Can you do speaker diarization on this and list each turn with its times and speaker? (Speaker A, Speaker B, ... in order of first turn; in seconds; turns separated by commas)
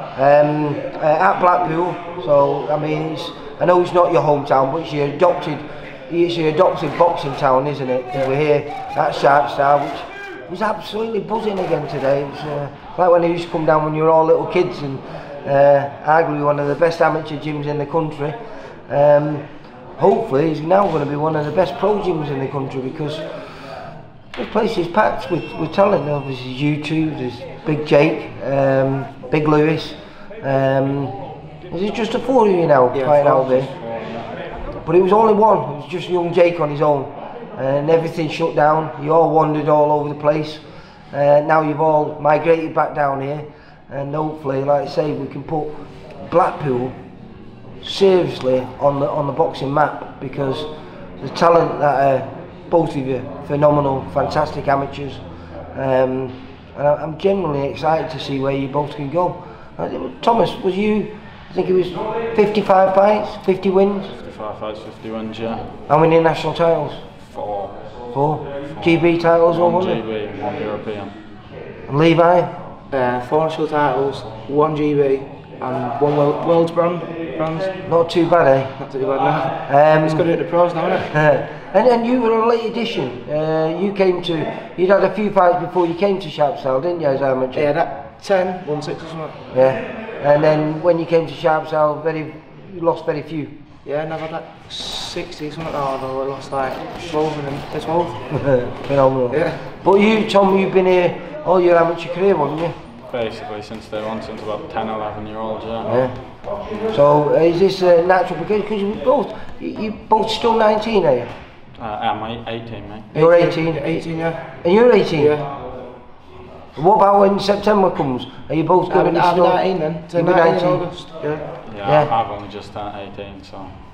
Speaker A: 0.1-18.4, Speaker A: 18.9-19.4, Speaker A: 20.0-23.2, Speaker A: 24.3-31.1, Speaker A: 31.7-33.7, Speaker B: 32.9-33.5, Speaker C: 33.5-34.3, Speaker A: 34.8-40.6, Speaker A: 41.1-45.7, Speaker A: 46.2-46.9, Speaker A: 47.8-50.7, Speaker A: 51.2-55.2, Speaker A: 55.7-64.1, Speaker C: 64.1-65.7, Speaker A: 65.9-67.0, Speaker C: 67.2-68.1, Speaker A: 68.1-70.0, Speaker C: 68.7-71.2, Speaker A: 71.9-72.5, Speaker B: 72.9-77.8, Speaker A: 77.8-78.8, Speaker B: 78.8-81.1, Speaker A: 79.6-80.3, Speaker A: 81.1-87.7, Speaker B: 87.5-89.4, Speaker A: 89.5-93.5, Speaker B: 93.8-98.3, Speaker A: 98.3-102.7, Speaker B: 99.3-99.6, Speaker C: 103.1-105.9, Speaker A: 105.9-106.2, Speaker A: 106.8-111.3, Speaker C: 111.8-113.1, Speaker B: 113.1-114.4, Speaker A: 113.1-114.0, Speaker A: 114.6-115.4, Speaker B: 115.2-115.5, Speaker A: 116.8-120.8, Speaker B: 118.9-121.4, Speaker C: 121.6-123.8, Speaker A: 121.8-122.1